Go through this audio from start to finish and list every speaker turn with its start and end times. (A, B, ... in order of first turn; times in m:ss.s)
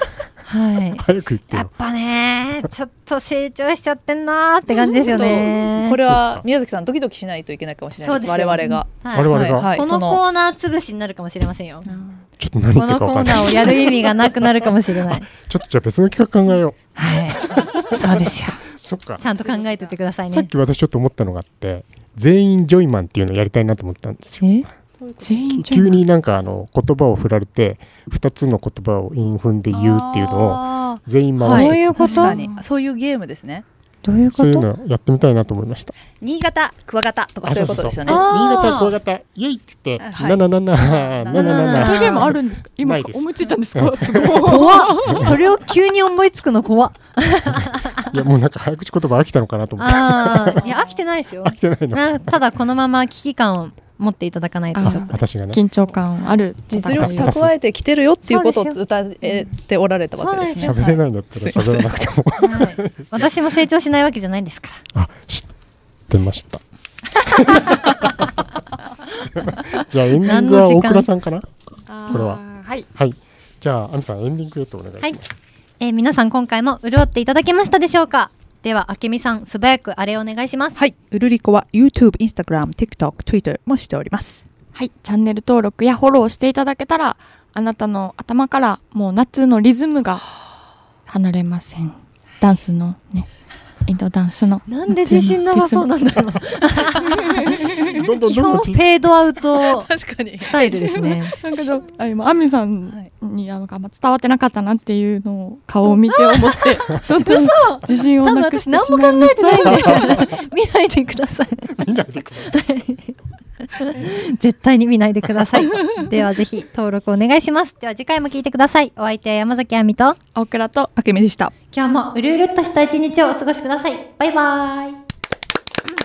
0:00.4-0:06.0 A
0:00.9-0:01.7 B
0:04.8-0:10.2 C
0:06.0-0:06.4 B
0:08.0-0:11.9 A
0:09.1-0:09.7 B
0:11.9-0:12.2 C
0:12.4-0:14.5 B
0:12.8-0:15.3 A
0:15.1-0:16.8 B
0:17.0-0:18.6 A
0:17.3-0:19.2 B
0:19.2-0:20.5 A
0:19.2-0:19.9 C
0:20.3-0:24.6 B
0:24.4-0:24.7 A
0:25.0-0:25.5 C
0:25.2-0:26.0 D
0:25.5-0:32.2 B
0:29.7-0:33.6 C
0:31.4-0:32.5 A
0:34.0-0:34.7 A
0:34.3-0:35.9 B
0:36.2-0:38.2 C
0:37.4-0:45.4 B
0:38.0-0:39.0 A
0:40.0-0:41.9 C
0:41.3-0:42.4 A
0:41.4-0:45.4 D
0:44.4-0:48.2 A
0:48.0-0:50.6 B
0:49.8-0:55.2 A
0:50.6-0:50.9 C
0:51.4-0:52.3 B
0:54.7-0:57.4 D
0:54.8-0:55.6 B
0:56.7-1:01.9 C
0:56.9-0:57.5 B
0:58.3-0:58.8 A
1:00.2-1:00.8 A
1:00.5-1:03.4 B
1:02.4-1:04.8 A
1:04.9-1:05.5 B
1:06.1-1:06.6 B
1:07.2-1:08.3 B
1:07.5-1:07.9 A
1:09.1-1:11.5 B
1:10.2-1:11.1 A
1:11.9-1:12.9 D
1:12.1-1:12.4 B
1:12.9-1:15.2 B
1:15.8-1:20.8 A
1:20.8-1:24.4 C
1:24.7-1:30.3 D
1:31.1-1:33.3 D
1:33.8-1:35.9 D
1:34.7-1:41.4 A
1:37.1-1:37.5 D
1:37.6-1:38.9 B
1:39.6-1:41.8 C
1:40.9-1:50.2 D
1:45.8-1:51.8 A
1:51.8-1:52.6 B
1:52.5-1:53.2 A
1:53.8-2:00.2 A
2:00.4-2:00.9 D
2:01.0-2:01.5 C
2:01.7-2:05.0 A